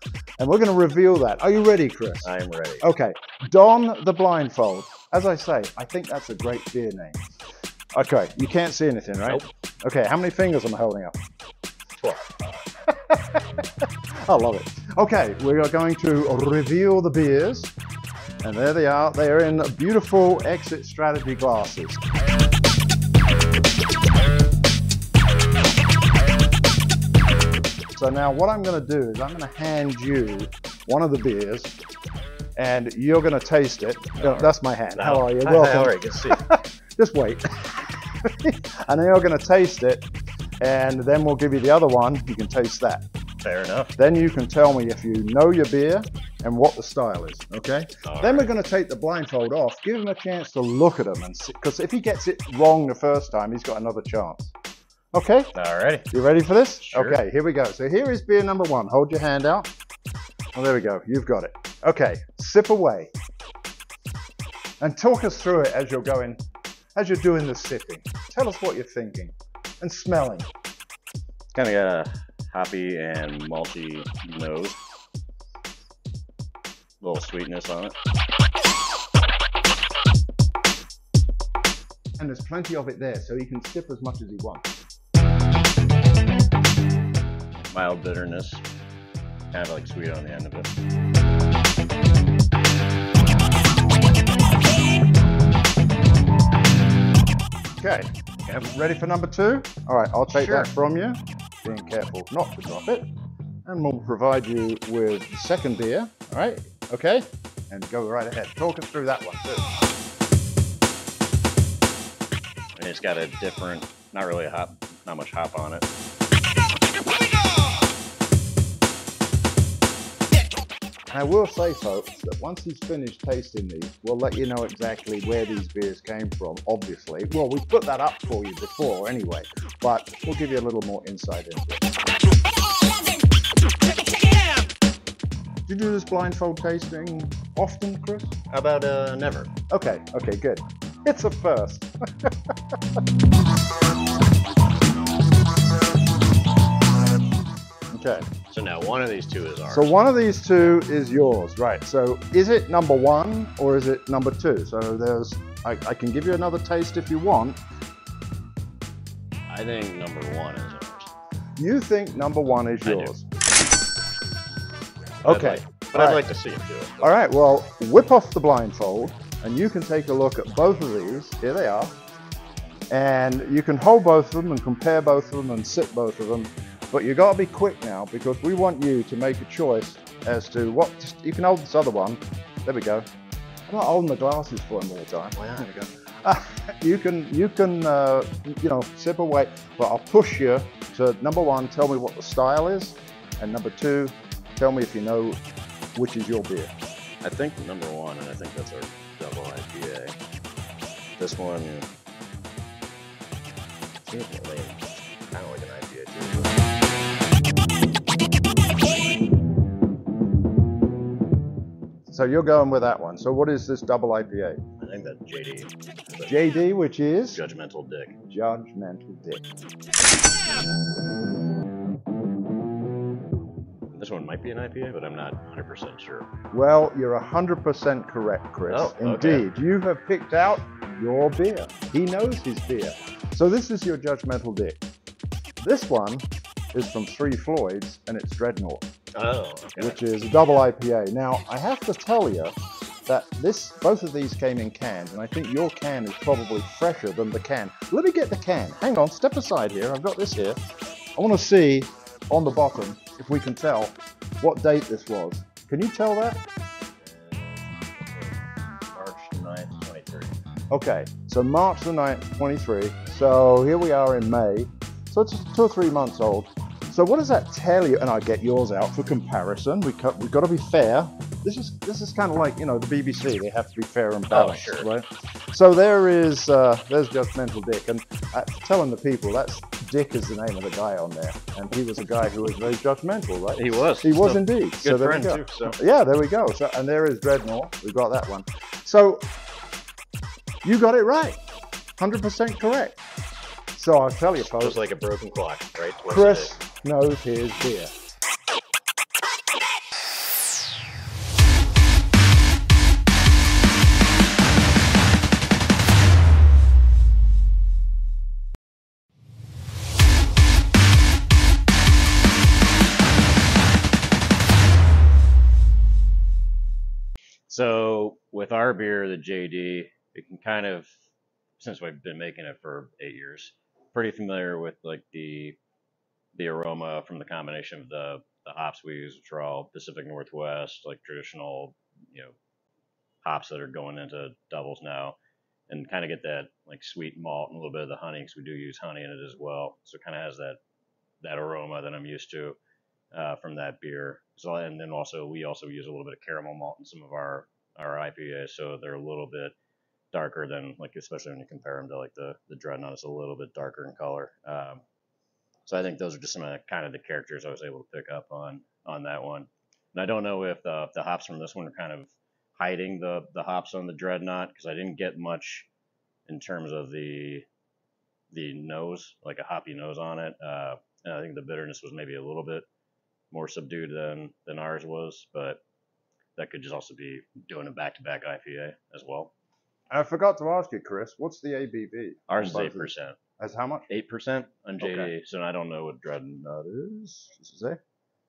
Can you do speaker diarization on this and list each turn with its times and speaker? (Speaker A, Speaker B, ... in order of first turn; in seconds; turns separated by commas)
Speaker A: 0.4-2.3, Speaker B: 2.2-2.8, Speaker A: 2.8-7.2, Speaker A: 7.9-11.1, Speaker B: 12.0-12.4, Speaker A: 12.8-13.4, Speaker A: 14.2-17.7, Speaker A: 18.4-22.0, Speaker A: 27.9-31.7, Speaker A: 32.6-40.0, Speaker B: 34.2-36.4, Speaker A: 40.6-43.0, Speaker B: 43.4-43.9, Speaker A: 44.0-54.5, Speaker B: 48.0-48.5, Speaker A: 55.1-55.5, Speaker B: 55.5-56.1, Speaker A: 56.1-59.7, Speaker B: 56.8-57.2, Speaker A: 60.5-63.1, Speaker A: 64.8-66.4, Speaker A: 67.0-70.5, Speaker B: 71.5-74.8, Speaker B: 77.0-78.0, Speaker A: 82.2-84.7, Speaker B: 87.7-88.6, Speaker B: 89.5-90.8, Speaker A: 97.8-103.1, Speaker B: 100.3-100.7, Speaker A: 103.7-109.7, Speaker B: 112.8-115.9, Speaker A: 121.1-131.9, Speaker A: 135.7-138.4, Speaker B: 138.5-139.5, Speaker A: 139.7-142.5, Speaker A: 147.9-148.3, Speaker B: 148.5-150.0, Speaker A: 149.7-157.6, Speaker B: 159.5-161.1, Speaker A: 161.6-163.3, Speaker B: 162.8-163.1, Speaker A: 165.2-166.3, Speaker B: 165.2-167.1, Speaker A: 167.0-171.9, Speaker A: 172.9-183.1, Speaker A: 183.7-195.4, Speaker B: 185.4-185.8, Speaker A: 195.9-196.7, Speaker B: 197.2-200.2, Speaker B: 201.2-201.9, Speaker B: 204.1-206.7, Speaker A: 212.1-214.6, Speaker B: 214.8-216.3, Speaker A: 216.3-217.4, Speaker B: 217.3-218.2, Speaker A: 218.3-219.5, Speaker B: 223.9-226.3, Speaker A: 226.5-234.8, Speaker B: 228.7-229.5, Speaker A: 235.6-238.8, Speaker B: 239.1-240.0, Speaker A: 239.8-242.5, Speaker A: 243.1-250.5, Speaker A: 251.2-256.4, Speaker B: 257.0-260.3, Speaker A: 260.7-289.3, Speaker B: 274.3-274.9, Speaker B: 283.6-285.8, Speaker A: 290.6-291.4, Speaker A: 292.0-293.0, Speaker A: 293.8-294.9, Speaker B: 294.4-296.6, Speaker A: 296.1-297.9, Speaker B: 317.5-320.9, Speaker B: 321.6-325.6, Speaker B: 326.4-332.4, Speaker B: 333.2-335.2, Speaker B: 335.7-340.6, Speaker B: 341.2-342.6, Speaker B: 343.1-349.6, Speaker B: 350.1-354.8, Speaker B: 355.7-365.7, Speaker B: 366.3-367.5, Speaker B: 368.3-372.7, Speaker B: 373.3-375.6, Speaker B: 376.4-379.3, Speaker A: 379.9-383.9, Speaker B: 382.3-383.2, Speaker B: 383.9-387.8, Speaker A: 384.8-385.1